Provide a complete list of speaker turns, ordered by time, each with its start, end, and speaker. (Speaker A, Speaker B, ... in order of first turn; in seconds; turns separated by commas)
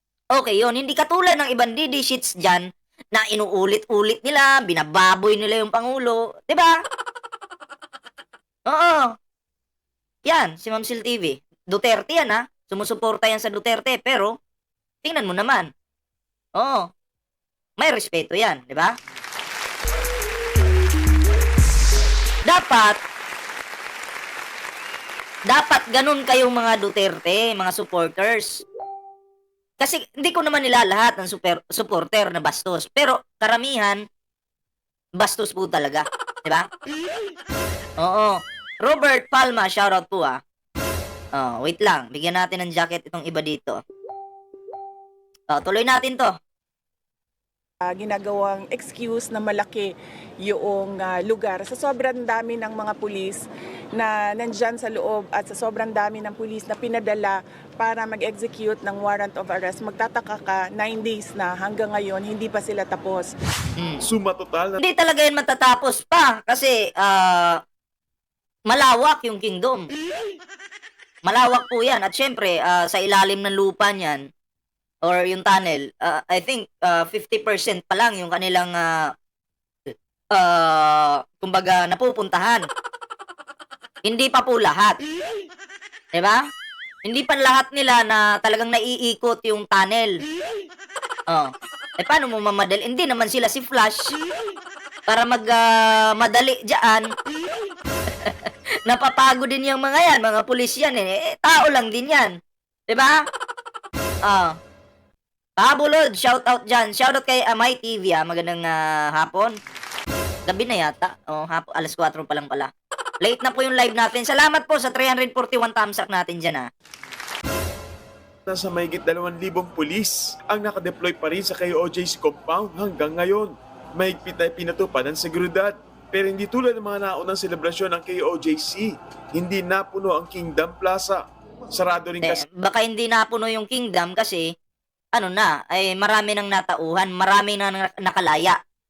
Speaker A: 0.3-6.8, Speaker A: 8.7-9.1, Speaker A: 10.2-14.3, Speaker A: 15.0-15.7, Speaker A: 16.6-16.9, Speaker A: 17.8-18.9, Speaker A: 22.4-23.0, Speaker A: 25.5-28.6, Speaker A: 29.8-34.0, Speaker A: 35.2-36.7, Speaker A: 38.0-40.4, Speaker A: 41.3-43.8, Speaker A: 45.5-46.3, Speaker B: 47.9-49.9, Speaker B: 50.4-53.4, Speaker B: 53.9-63.3, Speaker A: 63.8-64.0, Speaker C: 64.0-64.8, Speaker A: 64.8-67.6, Speaker A: 68.7-69.9, Speaker A: 71.2-74.2, Speaker A: 75.0-79.1, Speaker A: 79.9-82.6, Speaker A: 84.0-85.0, Speaker A: 86.1-86.4, Speaker A: 87.0-90.2, Speaker A: 91.3-94.1, Speaker A: 95.1-97.1, Speaker A: 98.9-102.3, Speaker A: 102.9-103.2, Speaker A: 104.2-104.6, Speaker A: 105.6-109.5, Speaker A: 110.5-112.7, Speaker A: 113.2-116.7, Speaker C: 118.5-131.2, Speaker C: 131.7-132.4, Speaker A: 132.2-134.5, Speaker A: 135.1-138.6